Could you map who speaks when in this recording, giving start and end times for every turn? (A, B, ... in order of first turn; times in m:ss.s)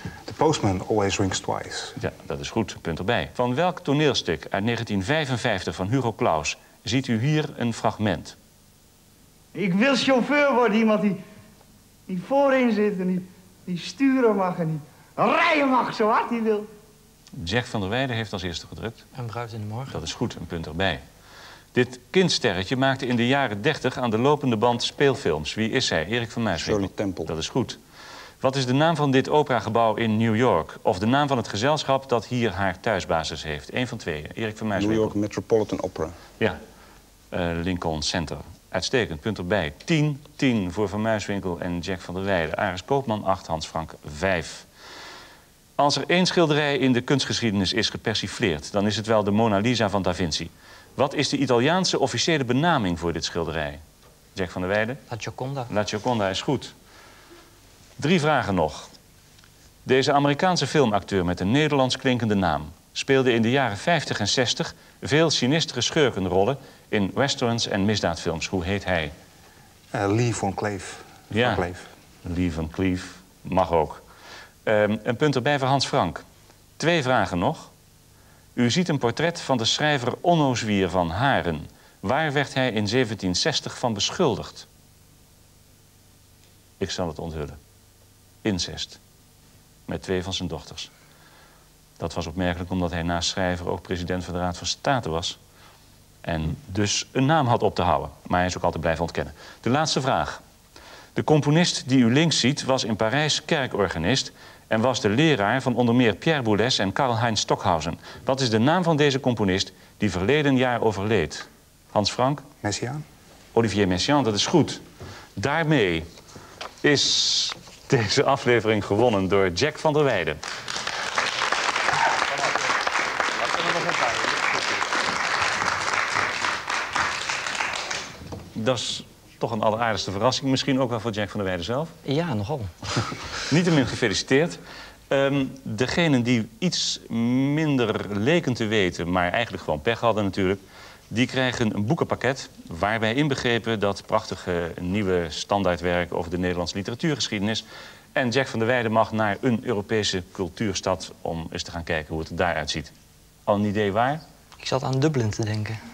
0:00.2-0:02.0 A
0:02.0-0:08.4 B
0:09.5-0:11.2 C
0:12.1-0:16.6 C
0:17.4-0:19.0 B
0:19.1-0:20.0 D
0:19.9-0:21.0 B
0:21.7-0:27.8 B
0:26.6-0:27.3 E
0:28.4-0:35.1 B
0:34.7-0:36.2 E
0:37.3-0:44.6 B
0:45.8-0:53.8 B
0:54.3-0:55.0 B
0:55.1-0:55.7 D
0:55.7-0:56.7 B
0:58.0-0:58.9 B
0:59.8-1:09.1 B
1:09.9-1:11.9 A
1:11.3-1:11.7 B
1:12.2-1:14.0 B
1:14.6-1:16.2 B
1:16.8-1:17.7 B
1:18.6-1:24.6 B
1:26.8-1:27.6 B
1:28.4-1:29.0 B
1:29.9-1:30.9 B
1:32.0-1:35.4 B
1:36.2-1:40.4 B
1:41.2-1:52.4 B
1:52.6-1:53.0 A
1:53.5-1:54.8 B
1:55.4-1:56.1 B
1:56.8-2:00.4 B
2:08.5-2:12.0 B
2:12.0-2:12.7 D
2:13.4-2:27.6 B
2:28.1-2:32.9 B
2:33.4-2:34.2 B
2:34.6-2:35.8 D